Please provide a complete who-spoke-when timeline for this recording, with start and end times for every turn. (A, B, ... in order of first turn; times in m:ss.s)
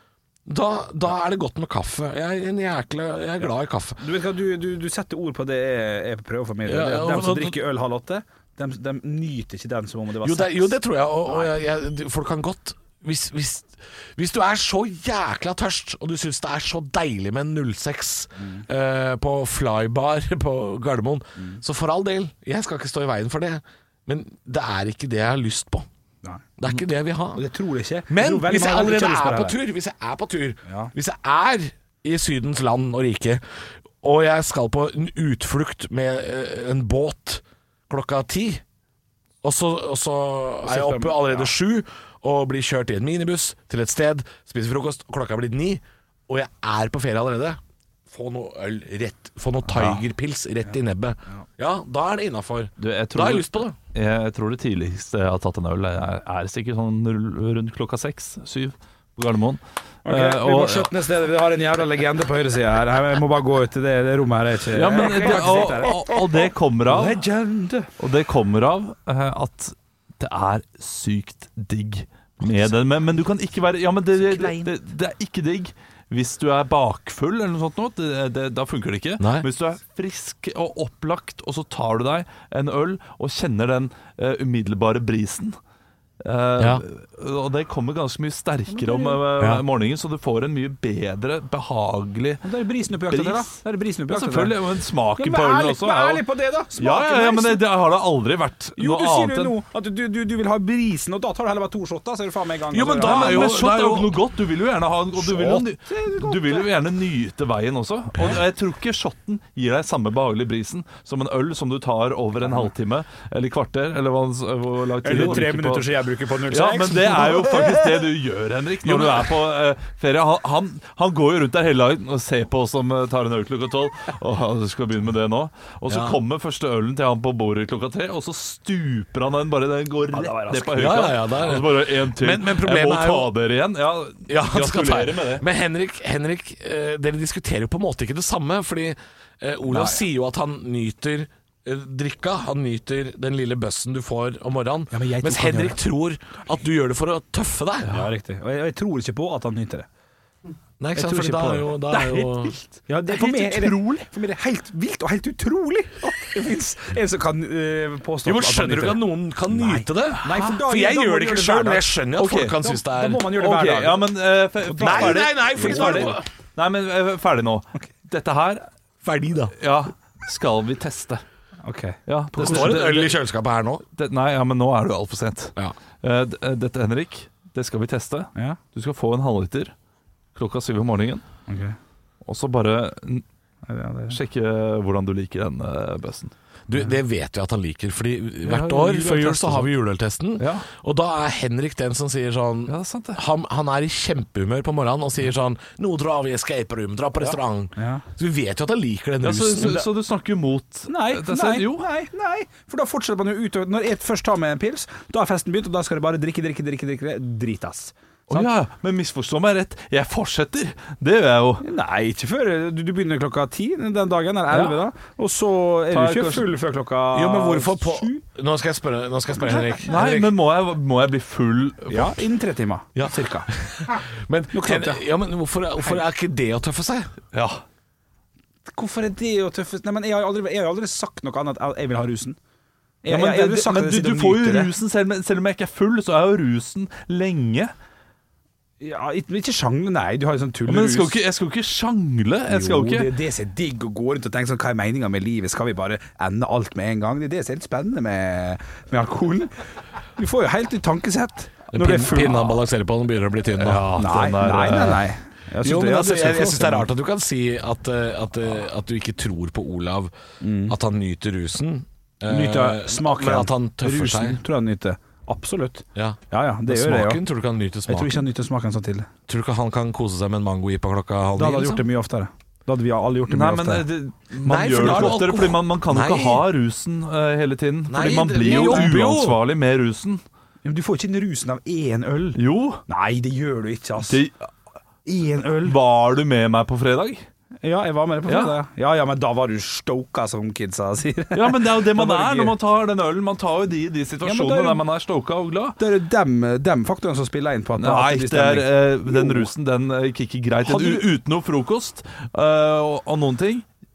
0:00.4-0:04.0 A
0:04.0-0:10.7 B
0:06.6-0:07.6 A
0:10.2-0:25.9 A
0:18.4-0:18.6 B
0:26.6-0:27.4 A
0:27.3-0:29.6 B
0:28.1-0:33.4 A
0:30.6-0:30.9 B
0:34.0-0:38.6 A
0:39.4-0:53.8 A
0:40.6-0:41.5 B
0:49.7-0:50.0 C
0:52.8-1:00.9 C
1:00.0-1:07.9 B
1:04.7-1:07.2 C
1:08.0-1:25.6 C
1:14.2-1:14.7 B
1:19.2-1:19.5 A
1:26.2-1:32.4 C
1:26.6-1:26.8 A
1:28.7-1:29.2 B
1:29.4-1:29.6 A
1:32.4-1:34.6 B
1:33.1-1:33.6 C
1:34.1-1:39.6 C
1:35.2-1:37.6 B
1:38.8-1:43.5 B
1:42.7-1:44.2 A
1:43.0-1:55.9 C
1:45.3-1:46.7 B
1:52.4-1:52.7 B
1:55.0-1:58.0 B
1:56.5-2:15.4 C
2:05.9-2:06.2 A
2:10.1-2:10.9 B
2:10.7-2:13.3 A
2:14.3-2:28.0 A
2:24.9-2:25.8 B
2:27.9-2:29.9 B
2:30.8-2:32.5 A
2:31.0-2:32.2 B
2:32.9-2:41.9 B
2:33.1-2:34.1 C
2:38.2-2:43.3 A
2:42.2-2:42.6 C
2:42.6-2:44.1 B
2:43.3-2:48.6 C
2:44.6-2:46.2 B
2:44.8-2:46.2 A
2:49.0-2:49.5 A
2:49.6-2:51.2 C
2:51.6-2:52.8 B
2:52.1-2:53.2 C
2:52.4-2:53.8 A
2:53.9-2:59.7 C
3:00.3-3:01.2 C
3:01.5-3:01.8 B
3:02.2-3:03.2 C
3:03.6-3:04.2 B
3:04.1-3:06.3 C
3:06.7-3:19.9 A
3:08.4-3:09.7 C
3:10.4-3:10.6 C
3:12.7-3:13.2 C
3:17.8-3:18.0 B
3:19.2-3:21.8 C
3:20.9-3:28.5 B
3:28.3-3:31.6 C
3:31.6-3:38.2 B
3:34.5-3:34.8 C
3:35.9-3:36.5 C
3:37.1-3:40.3 A
3:39.8-3:42.2 C
3:41.9-3:43.5 B
3:42.9-3:47.1 A
3:44.5-3:45.0 B
3:47.3-3:47.6 C
3:48.7-3:52.4 B
3:53.0-3:54.7 B
3:53.1-3:57.7 C
3:58.8-4:01.2 B
4:00.7-4:03.1 C
4:02.5-4:09.5 B
4:10.2-4:12.6 B
4:11.7-4:14.0 A
4:13.5-4:15.0 C
4:14.0-4:16.9 B
4:15.6-4:20.1 A
4:20.4-4:20.7 B
4:20.7-4:24.4 A
4:22.3-4:27.2 B
4:25.9-4:28.1 A
4:27.9-4:29.1 B
4:29.3-4:31.8 A
4:31.4-4:33.8 B
4:33.3-4:40.2 C
4:34.4-4:36.4 A
4:37.9-4:39.4 A
4:38.4-4:38.9 B
4:40.6-4:44.2 B
4:42.4-4:42.8 C
4:44.1-4:44.4 C
4:45.0-4:45.8 B
4:45.6-4:47.2 C
4:47.6-4:52.5 B
4:48.3-4:48.5 C
4:51.3-4:55.8 C
4:54.2-4:54.8 B
4:55.8-4:59.5 B
4:57.8-5:03.6 C
5:00.6-5:01.1 B